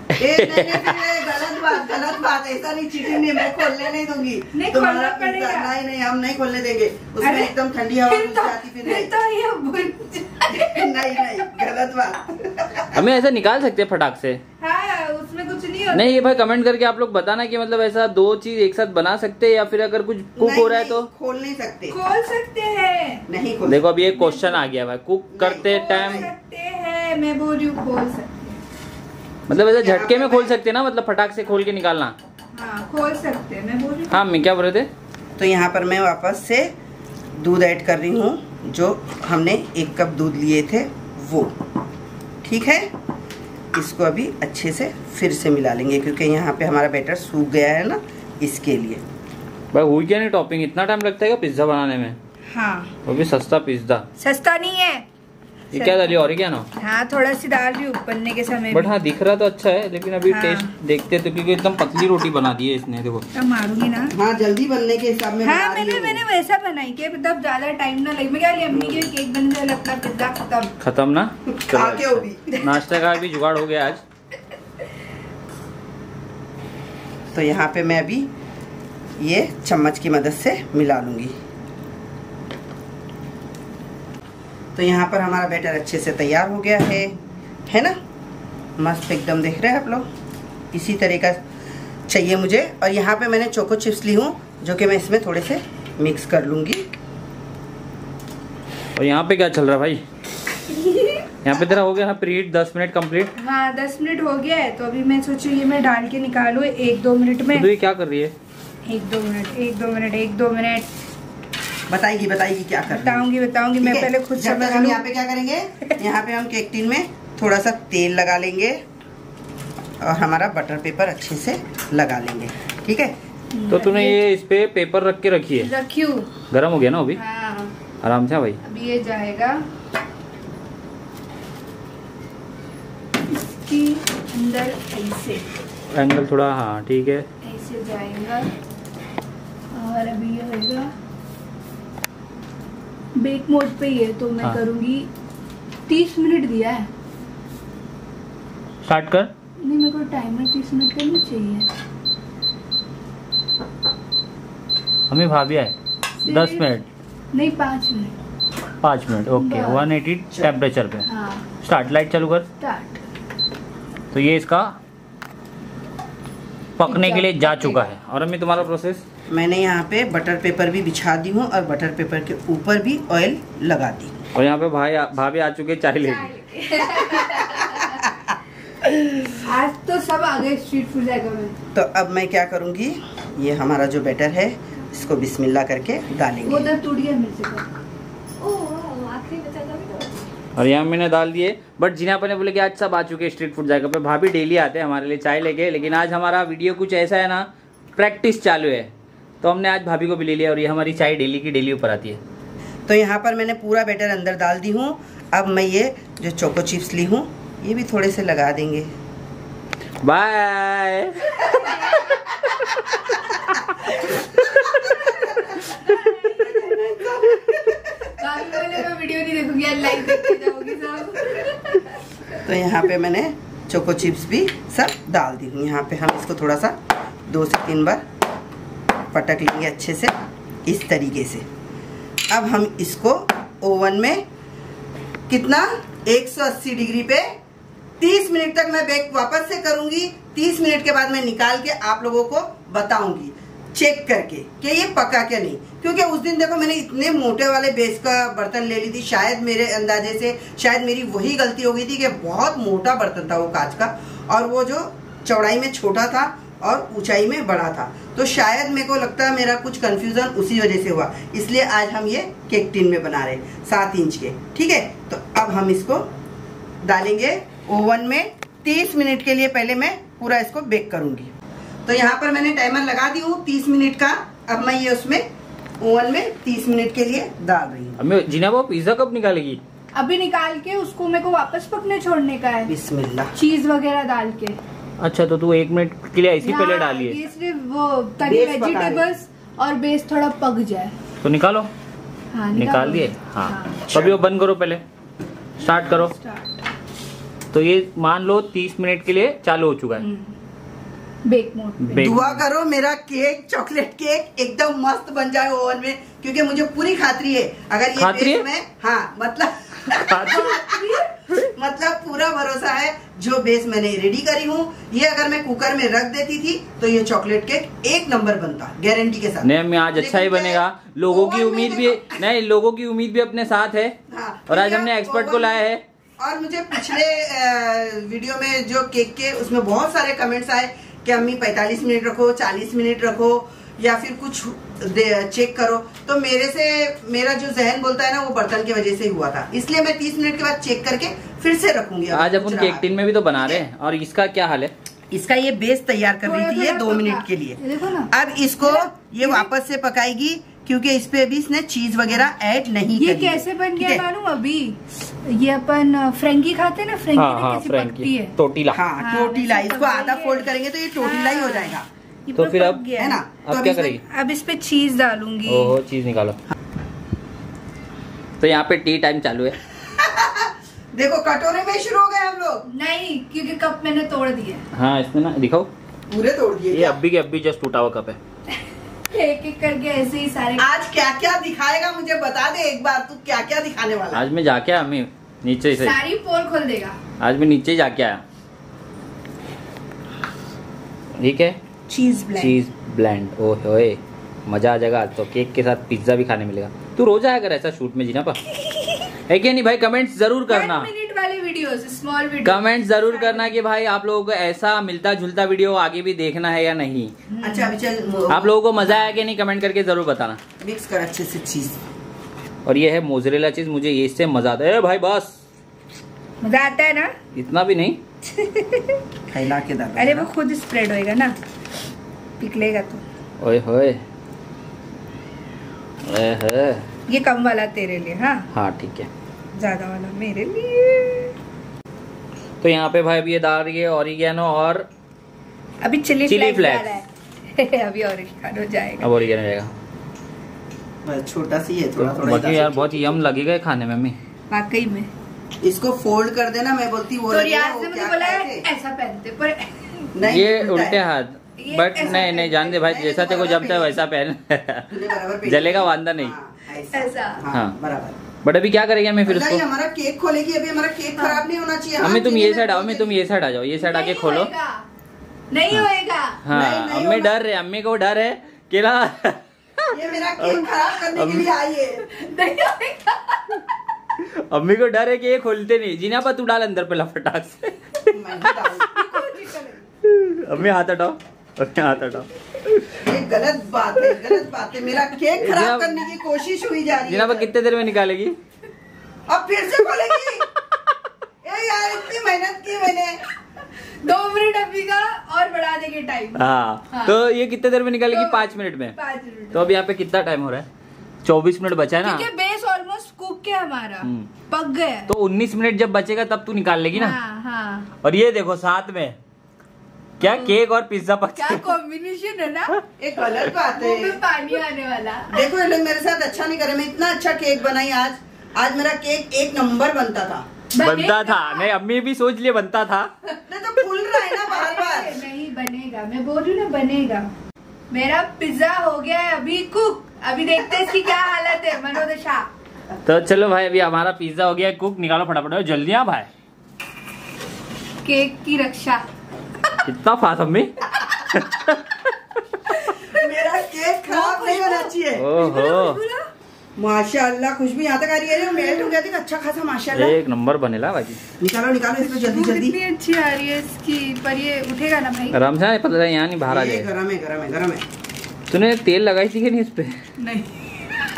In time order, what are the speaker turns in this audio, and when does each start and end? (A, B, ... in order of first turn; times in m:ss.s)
0:00.1-0:01.0 A
0:00.2-0:09.1 B
0:04.5-0:05.7 C
0:07.2-0:07.5 C
0:08.0-0:11.4 C
0:10.5-0:13.0 B
0:12.9-0:14.4 A
0:14.6-0:16.3 C
0:15.9-0:21.0 A
0:20.4-0:22.0 B
0:21.9-0:23.2 C
0:23.3-0:23.8 B
0:23.6-0:26.3 A
0:24.1-0:24.6 C
0:25.3-0:26.3 B
0:25.6-0:28.6 C
0:29.5-0:32.1 A
0:29.8-0:30.5 B
0:32.5-0:34.2 C
0:34.1-0:34.9 A
0:35.4-0:36.7 B
0:37.4-0:41.5 B
0:42.4-0:42.9 B
0:43.7-0:49.0 B
0:49.7-0:52.2 A
0:52.5-0:52.9 C
0:53.0-0:54.1 A
0:54.2-0:55.0 C
0:55.7-0:56.7 A
0:55.7-0:56.1 C
0:56.8-0:58.9 C
0:58.7-1:03.2 A
1:00.3-1:00.7 C
1:03.3-1:04.1 C
1:04.1-1:06.2 B
1:05.4-1:10.7 C
1:08.7-1:09.1 B
1:10.8-1:14.0 A
1:11.5-1:12.6 B
1:17.3-1:18.3 B
1:19.2-1:21.4 B
1:24.7-1:28.0 B
1:28.8-1:30.1 B
1:30.7-1:31.4 B
1:32.1-1:36.9 B
1:39.0-1:40.0 A
1:40.7-1:41.2 C
1:41.4-1:43.3 A
1:43.4-1:47.7 C
1:47.5-1:48.3 A
1:48.8-1:50.9 C
1:51.9-1:53.2 B
1:52.9-1:55.0 C
1:53.8-1:58.8 B
2:00.0-2:03.2 B
2:03.5-2:04.2 C
2:03.7-2:05.7 A
2:05.6-2:06.3 C
2:06.5-2:07.2 A
2:07.2-2:07.7 C
2:08.0-2:08.6 A
2:08.6-2:09.6 C
2:13.3-2:15.5 C
2:15.9-2:17.2 A
2:17.4-2:18.5 C
2:19.7-2:20.9 C
2:23.2-2:25.1 C
2:25.9-2:26.9 C
2:28.8-2:29.3 A
2:29.6-2:31.7 C
2:35.1-2:35.7 A
2:36.2-2:36.7 C
2:36.2-2:36.8 A
2:37.3-2:38.1 C
2:38.8-2:41.0 A
2:39.4-2:39.8 C
2:41.1-2:41.4 C
2:41.6-2:42.5 A
2:42.6-2:43.0 C
2:44.1-2:44.8 A
2:46.8-2:49.0 A
2:46.9-2:47.8 C
2:49.3-2:54.1 B
2:54.3-2:56.3 A
2:56.0-2:58.0 C
2:57.2-2:58.3 B
2:59.3-3:01.6 C
3:01.7-3:06.7 B
3:06.4-3:07.7 C
3:08.4-3:10.2 C
3:10.6-3:18.9 A
3:19.4-3:22.2 A
3:22.9-3:28.9 B
3:30.0-3:31.6 A
3:31.4-3:32.2 C
3:34.0-3:38.6 B
3:34.8-3:36.7 C
3:38.1-3:42.0 C
3:42.4-3:48.0 B
3:49.1-3:51.4 B
3:52.3-3:54.2 B
3:55.3-3:57.3 B
3:58.0-4:26.0 B
4:26.8-4:31.3 B
4:31.8-4:35.2 B
4:35.8-4:38.0 B
4:38.0-4:39.6 A
4:39.9-4:42.7 C
4:42.7-4:43.3 B
4:43.4-4:44.6 C
4:45.0-4:47.2 A
4:46.4-4:50.9 C
4:48.2-4:49.1 B
4:51.2-4:51.7 A
4:52.3-4:53.9 C
4:52.5-4:54.8 A
4:53.9-4:54.2 B
4:55.6-4:56.1 A
4:55.7-4:56.6 C
4:57.5-5:00.0 A
5:00.0-5:00.3 C
5:01.2-5:02.2 C
5:01.8-5:02.4 A
5:02.0-5:22.2 B
5:08.0-5:08.4 A
5:09.9-5:10.6 A
5:10.3-5:11.1 C
5:19.4-5:23.9 A
5:24.1-5:25.6 B
5:24.5-5:25.8 A
5:26.2-5:43.6 B
5:42.1-5:44.7 A
5:45.1-5:54.0 B
5:46.2-5:49.5 C
5:53.0-5:58.3 C
5:57.1-5:58.8 A
5:58.7-6:01.8 B
5:59.0-6:00.5 C
6:01.0-6:03.2 C
6:02.3-6:02.8 A
6:03.0-6:04.0 B
6:03.4-6:04.0 A
6:04.0-6:05.8 C
6:05.4-6:06.4 A
6:08.4-6:09.6 A
6:09.9-6:12.6 B
6:12.7-6:14.6 C
6:14.7-6:15.7 A
6:16.1-6:17.0 B
6:16.7-6:18.2 A
6:19.1-6:20.7 C
6:20.6-6:24.2 B
6:24.1-6:26.0 A
6:25.8-6:27.0 C
6:27.2-6:28.2 A
6:31.2-6:31.6 A
6:31.9-6:32.6 C
6:32.4-6:38.4 A
6:39.3-6:40.9 A
6:40.5-6:43.5 C
6:42.4-6:47.1 A
6:47.3-6:47.7 C
6:47.4-6:48.8 B
6:48.3-6:50.4 A
6:50.6-6:51.8 B
6:52.6-6:55.4 A
6:56.4-6:57.1 C
6:57.3-6:58.0 A
6:58.2-6:59.0 C
6:59.3-7:00.3 B
7:00.0-7:01.4 C
7:02.4-7:03.0 C
7:03.4-7:04.0 A
7:06.0-7:06.9 A
7:07.1-7:08.5 C
7:08.5-7:09.1 A
7:09.6-7:11.3 C
7:12.6-7:14.9 A
7:15.8-7:19.1 C
7:16.3-7:17.0 A
7:19.0-7:19.7 A
7:21.0-7:23.0 B
7:22.0-7:24.2 A
7:24.5-7:25.1 C
7:25.6-7:28.6 B
7:27.3-7:30.1 C
7:30.1-7:31.0 B
7:30.2-7:36.3 A
7:31.6-7:32.8 C
7:32.0-7:34.0 B
7:34.9-7:38.2 B
7:36.9-7:37.4 C
7:38.4-7:39.6 A
7:39.2-7:42.8 B
7:41.2-7:41.4 C
7:42.0-7:44.5 A
7:42.0-7:43.1 C
7:43.8-7:44.8 C
7:45.5-7:46.4 C
7:46.4-7:51.5 A
7:46.5-7:47.3 B
7:49.9-7:52.1 B
7:52.1-7:53.6 C
7:54.2-7:58.2 A
7:58.1-7:59.2 B
7:58.9-7:59.8 C
8:00.0-8:03.0 A
8:03.0-8:07.5 B
8:05.4-8:06.0 A
8:07.1-8:08.4 A
8:09.3-8:10.5 B
8:11.4-8:13.2 B
8:14.0-8:17.2 C
8:16.4-8:19.0 A
8:18.1-8:19.6 C
8:19.5-8:20.7 A
8:21.2-8:22.2 A
8:22.0-8:25.1 C
8:25.1-8:27.2 A
8:26.9-8:27.9 C
8:28.0-8:29.2 A
8:30.2-8:31.6 A
8:30.2-8:30.5 C
8:31.4-8:32.7 C
8:33.0-8:34.2 B
8:33.7-8:35.4 C
8:35.3-8:40.5 B
8:40.7-8:41.7 C
8:40.8-8:43.1 A
8:43.5-8:45.2 B
8:44.1-8:47.3 C
8:47.9-8:52.5 C
8:53.0-8:56.3 A
8:58.0-8:59.0 C
8:59.8-9:02.1 A
9:02.7-9:06.3 C
9:02.9-9:05.3 B
9:05.2-9:06.0 A
9:06.8-9:10.1 B
9:09.9-9:11.2 A
9:11.4-9:12.8 B
9:12.1-9:15.4 C
9:15.3-9:16.9 A
9:16.4-9:17.8 B
9:18.5-9:20.0 A
9:20.2-9:21.0 C